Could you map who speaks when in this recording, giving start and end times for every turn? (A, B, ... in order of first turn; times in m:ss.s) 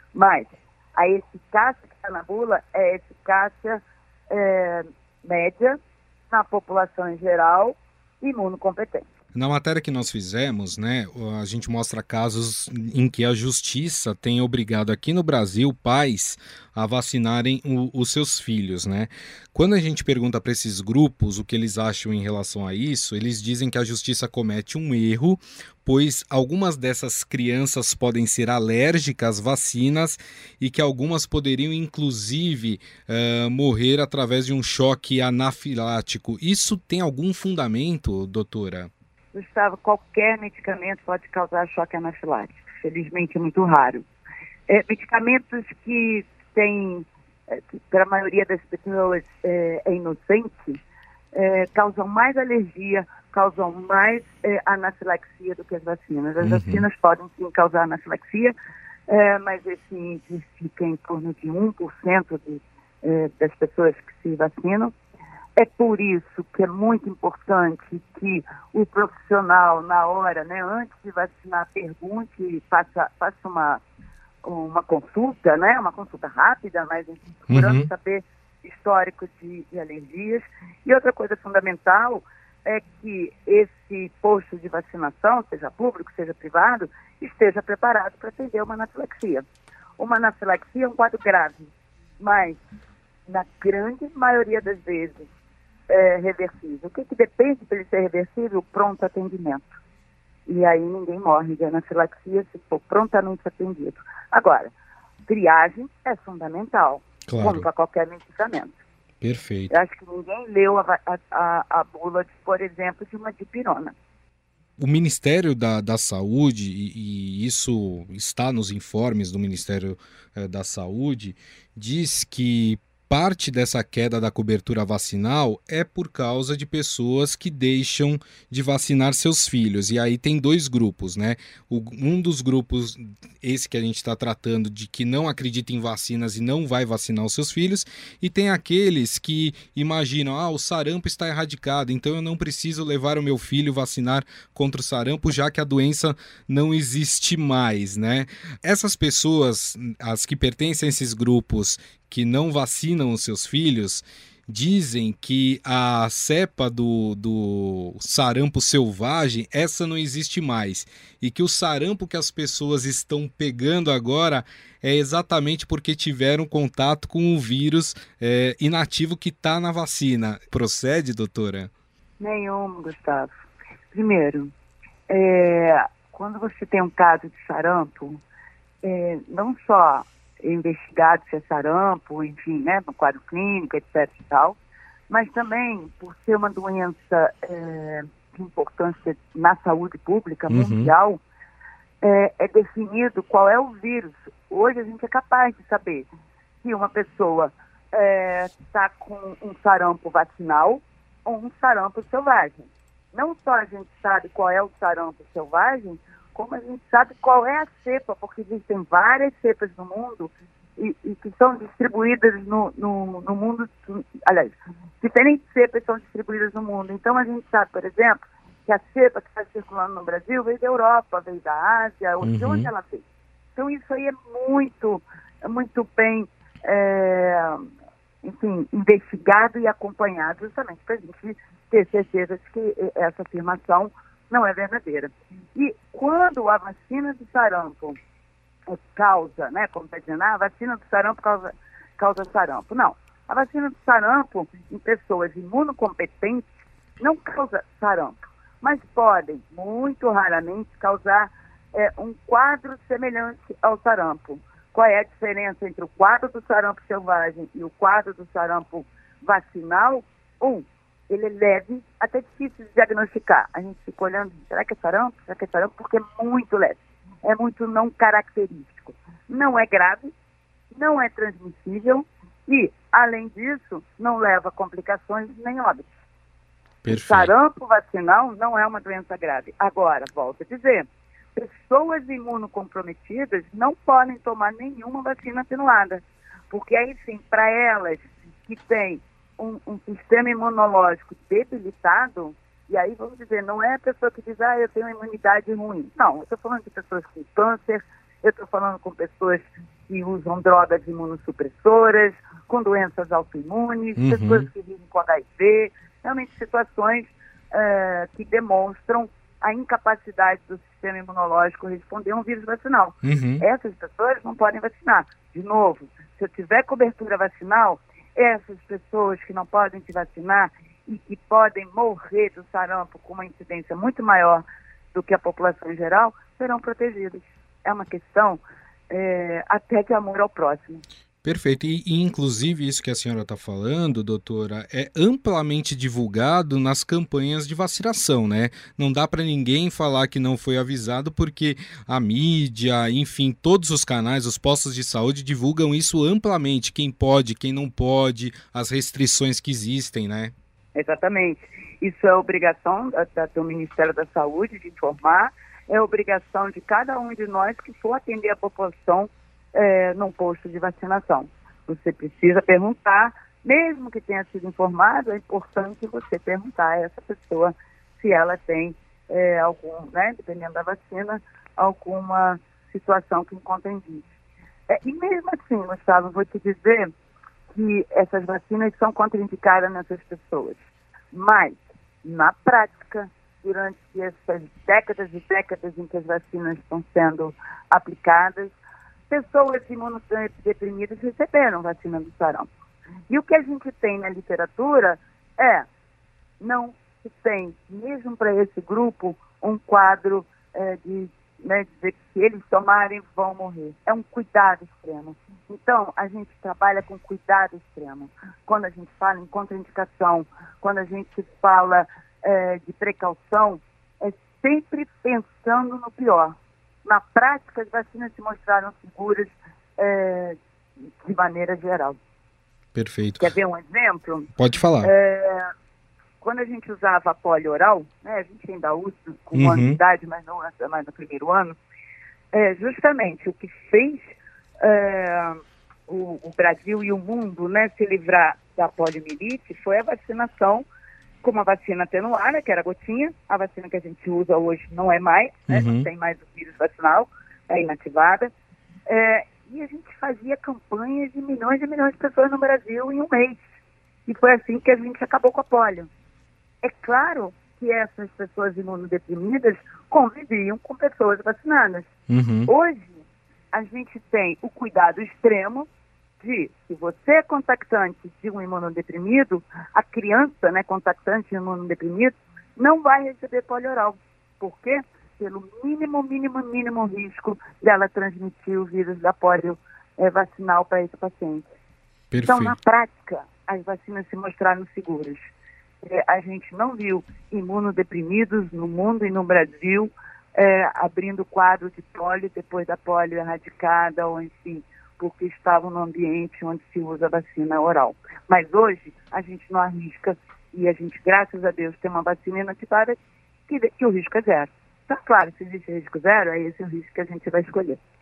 0:00.1-0:09.1 A
0:09.3-0:38.9 B
0:39.3-0:44.0 A
0:44.7-0:50.8 A
0:51.3-0:58.5 A
0:56.4-0:56.8 B
0:59.1-1:04.9 A
1:05.6-1:13.8 A
1:14.4-1:29.4 A
1:17.5-1:17.9 B
1:30.0-1:32.6 A
1:33.3-1:35.3 A
1:35.9-1:39.8 A
1:40.4-1:44.7 A
1:45.3-1:48.8 A
1:47.3-1:47.7 B
1:49.2-1:49.7 B
1:49.7-1:53.9 A
1:54.8-2:51.7 B
2:52.2-2:53.3 A
2:53.9-2:54.5 A
2:55.1-2:58.2 A
2:58.8-3:04.6 A
3:05.1-3:11.2 A
3:10.5-3:10.9 B
3:12.0-3:16.1 A
3:16.6-3:43.0 A
3:42.2-3:42.7 B
3:43.6-3:47.7 A
3:48.2-3:58.0 A
3:58.6-4:30.1 A
4:30.7-4:35.9 A
4:36.8-4:37.3 B
4:36.9-5:30.8 A
5:04.0-5:04.5 B
5:13.0-5:13.4 B
5:31.2-5:50.3 B
5:50.7-6:14.2 A
6:14.7-6:16.9 A
6:17.5-6:28.6 A
6:29.1-6:32.5 A
6:33.1-6:35.7 A
6:36.4-7:00.4 A
7:01.0-7:02.0 A
7:02.7-7:03.3 B
7:03.2-7:04.3 A
7:04.4-7:04.9 B
7:04.8-7:05.5 A
7:06.2-7:11.6 A
7:09.3-7:09.8 B
7:12.3-7:20.6 A
7:21.2-7:28.3 A
7:25.5-7:25.9 B
7:28.9-7:33.4 A
7:34.0-7:35.9 A
7:36.6-7:41.9 A
7:42.1-7:42.5 B
7:42.5-7:45.7 A
7:46.2-8:01.5 A
8:02.1-8:02.5 B
8:02.2-8:27.8 A